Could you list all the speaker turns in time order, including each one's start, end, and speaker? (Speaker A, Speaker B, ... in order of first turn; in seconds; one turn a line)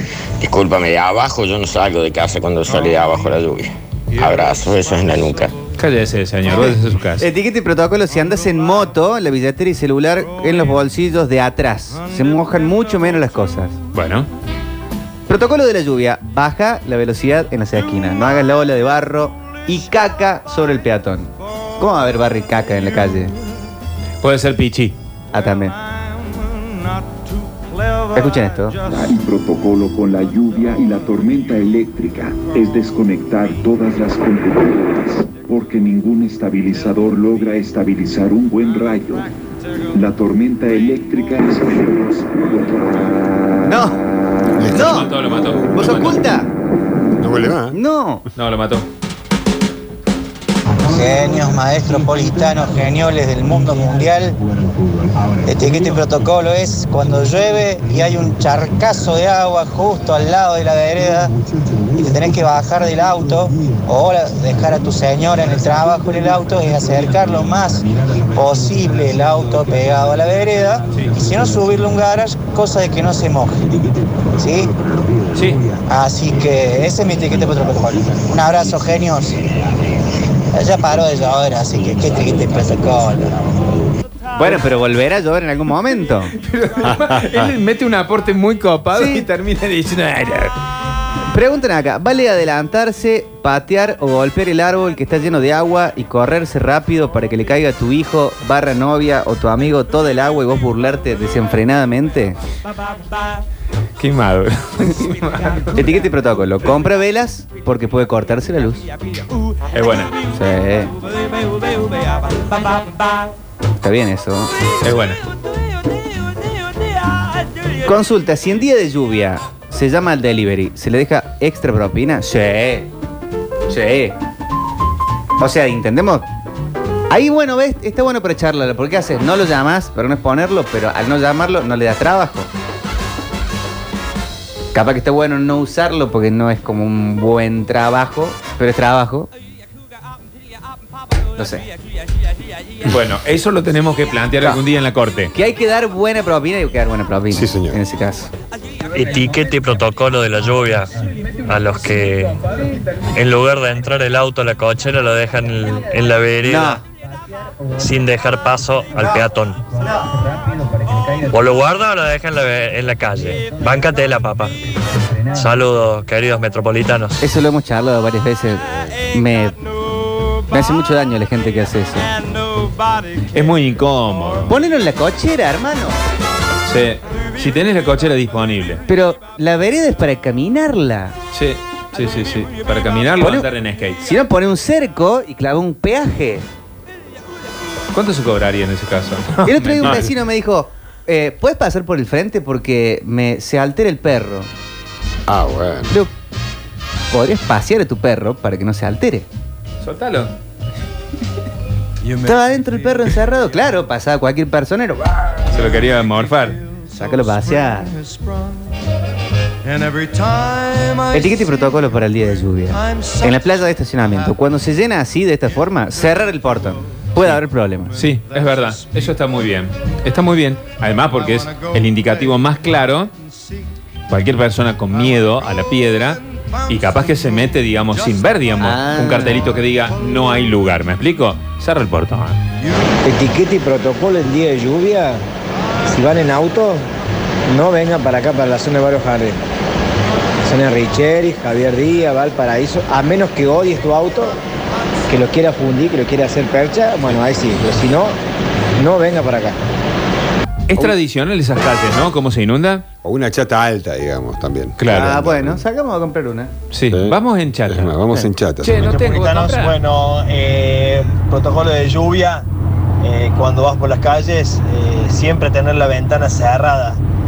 Speaker A: 0.4-5.5
Speaker B: 5.8-7.2
Speaker C: 6.5-13.8
Speaker B: 13.9-14.3
Speaker C: 15.3-23.3
Speaker B: 24.2-24.9
Speaker C: 25.3-25.8
Speaker C: 28.1-28.8
Speaker D: 28.9-39.3
Speaker D: 39.9-43.2
Speaker C: 43.7-44.0
Speaker B: 44.6-46.2
Speaker C: 44.6-46.5
Speaker E: 47.2-47.8
Speaker C: 47.7-48.2
Speaker B: 48.4-48.9
Speaker F: 50.9-54.4
Speaker F: 55.4-61.3
Speaker F: 62.0-67.8
Speaker F: 68.3-73.6
Speaker B: 71.0-71.2
Speaker F: 74.4-74.7
Speaker B: 75.3-75.6
Speaker F: 75.9-79.4
Speaker F: 80.5-83.3
Speaker C: 84.3-86.3
Speaker B: 86.3-90.5
Speaker E: 86.9-87.4
Speaker C: 88.9-89.3
Speaker C: 91.3-102.4
Speaker B: 104.0-105.8
Speaker C: 105.7-108.8
Speaker B: 109.7-110.1
Speaker C: 110.3-110.9
Speaker C: 113.8-114.5
Speaker B: 114.8-115.2
Speaker C: 117.8-122.9
Speaker C: 123.7-124.2
Speaker C: 125.4-126.2
Speaker C: 127.1-132.5
Speaker C: 134.7-139.3
Speaker C: 141.4-141.7
Speaker B: 142.8-145.3
Speaker C: 145.3-148.3
Speaker E: 147.3-147.8
Speaker G: 148.9-150.9
Speaker G: 151.4-152.4
Speaker G: 153.1-156.8
Speaker C: 156.4-156.8
Speaker G: 157.8-159.6
Speaker G: 161.3-164.5
Speaker G: 165.3-167.2
Speaker C: 167.2-169.6
Speaker C: 170.5-172.1
Speaker B: 173.3-174.5
Speaker C: 174.5-176.0
Speaker B: 176.7-178.8
Speaker C: 178.9-181.1
Speaker B: 181.3-184.0
Speaker C: 183.2-183.5
Speaker C: 184.0-186.4
Speaker B: 187.9-190.1
Speaker C: 189.4-194.5
Speaker E: 195.3-195.9
Speaker C: 197.1-199.2
Speaker B: 199.8-200.3
Speaker C: 202.2-205.4
Speaker B: 205.5-206.6
Speaker C: 206.9-207.9
Speaker C: 211.1-217.9
Speaker B: 217.9-223.1
Speaker B: 224.1-232.4
Speaker C: 228.6-229.6
Speaker H: 233.0-235.2
Speaker H: 235.9-236.8
Speaker H: 237.5-239.4
Speaker H: 240.4-244.4
Speaker H: 245.1-248.2
Speaker H: 248.8-249.6
Speaker B: 250.7-252.8
Speaker E: 253.0-255.6
Speaker B: 254.8-255.1
Speaker C: 254.9-256.5
Speaker B: 256.7-259.8
Speaker E: 256.9-258.8
Speaker I: 258.7-262.4
Speaker I: 263.0-267.0